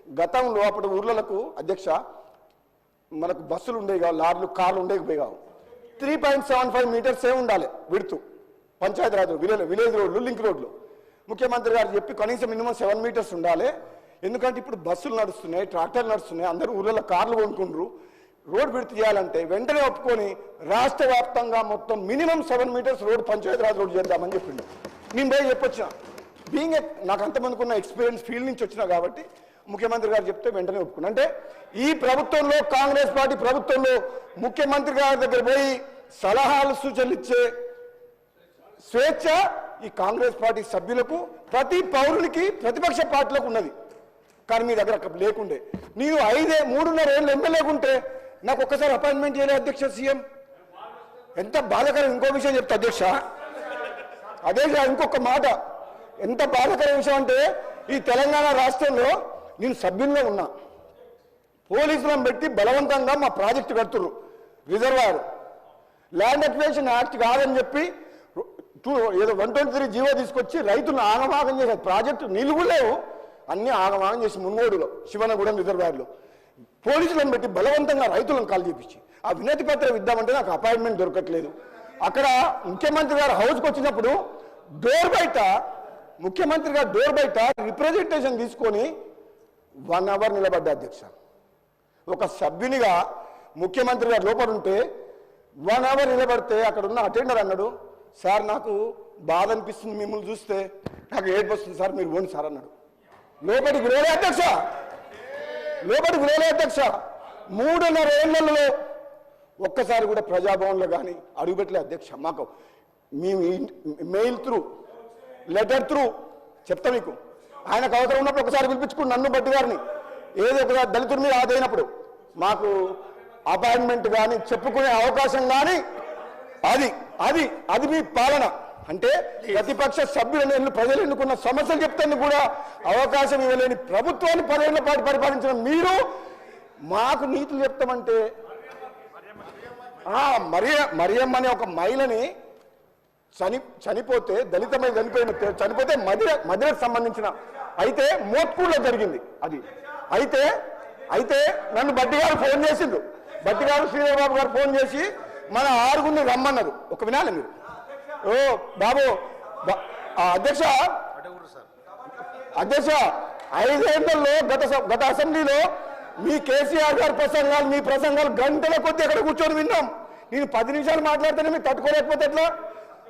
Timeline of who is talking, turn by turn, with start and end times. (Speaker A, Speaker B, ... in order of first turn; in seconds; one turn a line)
Speaker A: 0.2-2.0
Speaker A: 3.2-5.4
Speaker A: 6.0-8.2
Speaker A: 8.8-10.7
Speaker A: 11.3-13.7
Speaker A: 14.2-17.9
Speaker A: 18.5-25.9
Speaker A: 26.5-31.3
Speaker A: 31.8-37.5
Speaker A: 38.9-43.7
Speaker A: 44.5-50.2
Speaker A: 51.4-53.1
Speaker A: 54.5-55.5
Speaker A: 56.2-60.5
Speaker A: 61.7-64.1
Speaker A: 64.7-65.2
Speaker A: 66.2-73.0
Speaker A: 73.5-76.1
Speaker A: 76.8-84.2
Speaker A: 84.8-85.5
Speaker A: 86.2-88.9
Speaker A: 89.9-91.1
Speaker A: 92.1-93.0
Speaker A: 93.6-94.8
Speaker A: 95.7-102.7
Speaker A: 103.4-104.6
Speaker A: 105.8-107.0
Speaker A: 107.5-108.7
Speaker A: 109.6-112.5
Speaker A: 113.2-114.6
Speaker A: 115.5-116.1
Speaker A: 116.7-117.2
Speaker A: 117.7-119.8
Speaker A: 120.4-121.9
Speaker A: 122.4-123.0
Speaker A: 123.5-125.8
Speaker A: 126.7-136.0
Speaker A: 136.9-138.2
Speaker A: 140.1-142.3
Speaker A: 143.4-150.5
Speaker A: 151.1-157.5
Speaker A: 158.3-161.1
Speaker A: 162.6-165.7
Speaker A: 166.2-172.5